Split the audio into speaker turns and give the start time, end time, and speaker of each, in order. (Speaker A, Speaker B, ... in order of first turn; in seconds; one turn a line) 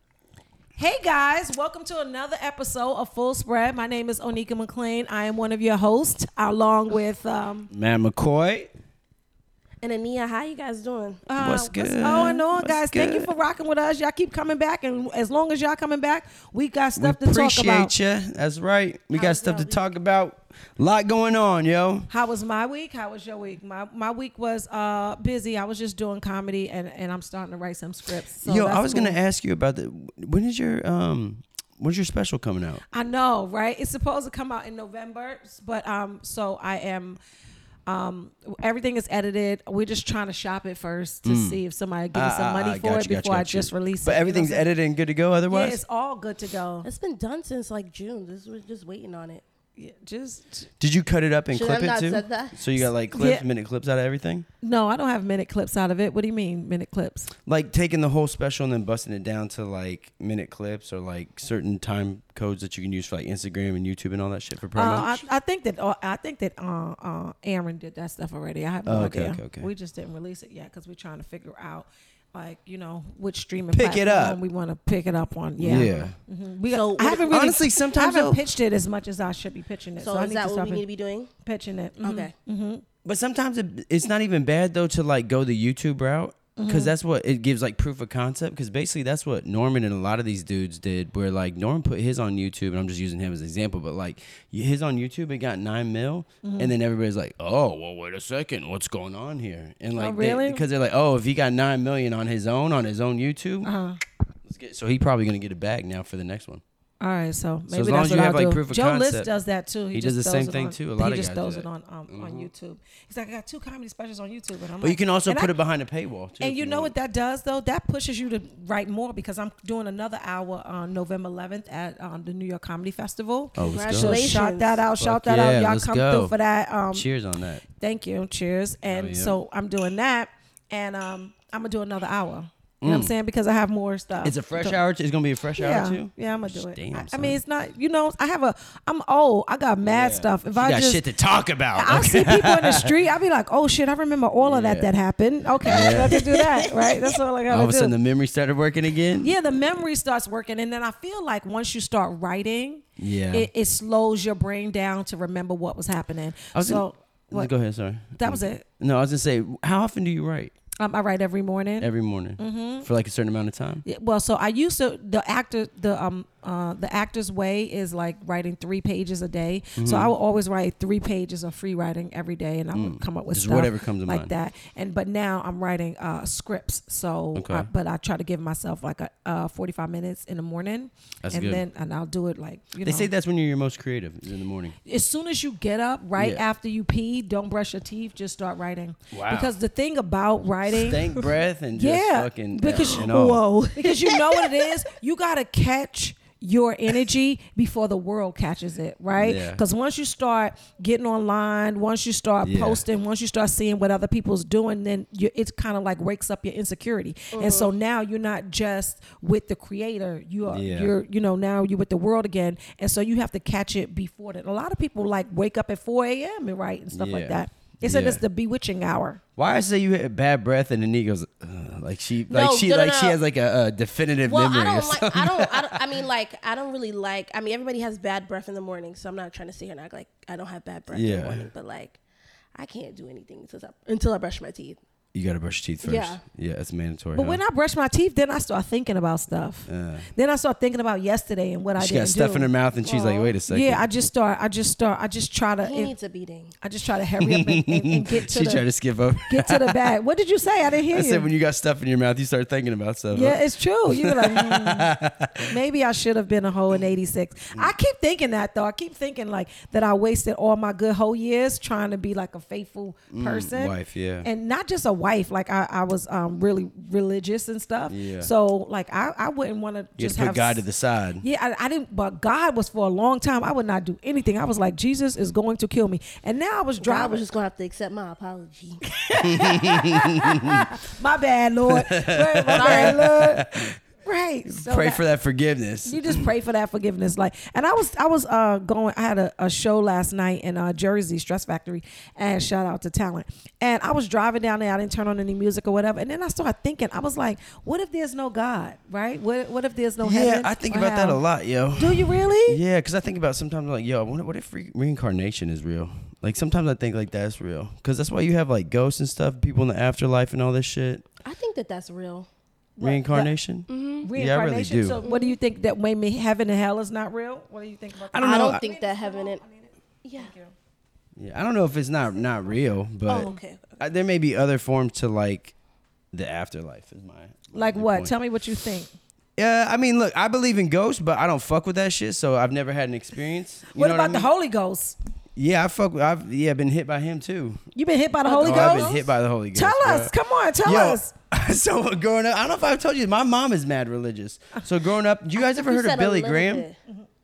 Speaker A: 0.8-7.7
Speaker B: 7.7-8.7
Speaker C: 9.8-11.2
Speaker A: 11.3-17.9
Speaker B: 11.4-13.3
Speaker B: 16.9-22.1
Speaker A: 19.1-19.8
Speaker A: 22.1-29.2
Speaker B: 28.4-32.8
Speaker A: 32.9-37.2
Speaker A: 37.9-44.7
Speaker B: 41.2-41.6
Speaker B: 42.1-45.8
Speaker A: 45.5-46.9
Speaker C: 46.8-49.4
Speaker A: 49.8-50.7
Speaker B: 50.8-54.5
Speaker C: 51.5-52.6
Speaker A: 53.1-53.4
Speaker A: 54.6-57.3
Speaker B: 57.5-65.2
Speaker A: 64.7-80.8
Speaker B: 68.8-69.7
Speaker B: 73.7-74.4
Speaker B: 75.6-76.1
Speaker C: 75.7-76.1
Speaker C: 76.7-77.3
Speaker B: 77.3-78.4
Speaker C: 80.0-81.3
Speaker A: 81.4-82.8
Speaker C: 82.0-82.3
Speaker B: 83.0-103.7
Speaker A: 86.5-86.9
Speaker A: 96.4-96.7
Speaker A: 100.0-100.6
Speaker A: 103.6-104.0
Speaker B: 104.5-106.6
Speaker A: 107.0-115.5
Speaker B: 107.7-109.3
Speaker B: 109.9-112.5
Speaker B: 114.8-116.9
Speaker A: 116.4-127.1
Speaker B: 123.5-124.4
Speaker C: 123.6-124.8
Speaker B: 125.0-126.3
Speaker B: 126.9-127.6
Speaker A: 127.7-134.8
Speaker B: 128.8-129.4
Speaker B: 132.8-133.1
Speaker B: 134.2-137.4
Speaker A: 135.6-141.0
Speaker B: 139.8-142.9
Speaker A: 141.7-147.9
Speaker B: 144.4-144.9
Speaker B: 145.7-146.2
Speaker C: 145.7-146.3
Speaker B: 147.5-149.3
Speaker A: 149.2-157.5
Speaker B: 153.0-153.5
Speaker B: 156.5-160.5
Speaker A: 158.2-158.6
Speaker A: 160.8-162.9
Speaker B: 161.8-163.8
Speaker A: 163.8-183.1
Speaker B: 169.8-170.1
Speaker B: 172.7-174.3
Speaker B: 177.3-177.7
Speaker B: 181.2-181.6
Speaker B: 182.8-184.8
Speaker A: 184.8-219.2
Speaker B: 186.2-186.4
Speaker B: 189.1-189.5
Speaker B: 190.7-193.5
Speaker C: 192.7-194.6
Speaker B: 199.1-199.6
Speaker B: 202.4-202.8
Speaker C: 207.3-207.7
Speaker B: 210.5-210.9
Speaker B: 216.9-218.2
Speaker B: 219.4-225.9
Speaker C: 222.3-223.2
Speaker C: 224.2-232.0
Speaker B: 230.9-231.4
Speaker C: 232.5-234.8
Speaker B: 235.1-237.4
Speaker C: 235.8-236.2
Speaker A: 237.1-245.9
Speaker B: 239.7-240.1
Speaker B: 241.8-243.8
Speaker C: 245.6-246.5
Speaker A: 246.6-248.7
Speaker B: 247.2-249.8
Speaker A: 249.3-251.3
Speaker B: 250.9-255.5
Speaker A: 253.1-270.6
Speaker B: 263.1-264.3
Speaker B: 267.9-268.3
Speaker B: 270.0-271.2
Speaker A: 271.2-277.2
Speaker C: 276.8-278.8
Speaker A: 278.9-285.0
Speaker B: 279.2-280.7
Speaker B: 281.7-283.8
Speaker C: 282.5-283.0
Speaker B: 284.5-286.3
Speaker A: 285.9-301.2
Speaker B: 300.0-311.0
Speaker A: 301.8-302.6
Speaker C: 311.2-312.3
Speaker A: 312.8-313.3
Speaker B: 312.8-315.0
Speaker C: 313.7-314.1
Speaker A: 314.0-320.5
Speaker C: 315.0-315.4
Speaker B: 318.1-318.6
Speaker C: 318.2-319.4
Speaker C: 320.0-320.3
Speaker B: 321.2-325.5
Speaker C: 323.1-323.8
Speaker B: 326.1-328.1
Speaker A: 327.5-328.9
Speaker B: 329.4-334.3
Speaker A: 333.7-334.9
Speaker B: 335.4-337.6
Speaker A: 337.7-339.0
Speaker C: 338.2-339.0
Speaker B: 338.4-340.1
Speaker A: 339.5-341.1
Speaker B: 340.6-346.6
Speaker C: 345.4-346.8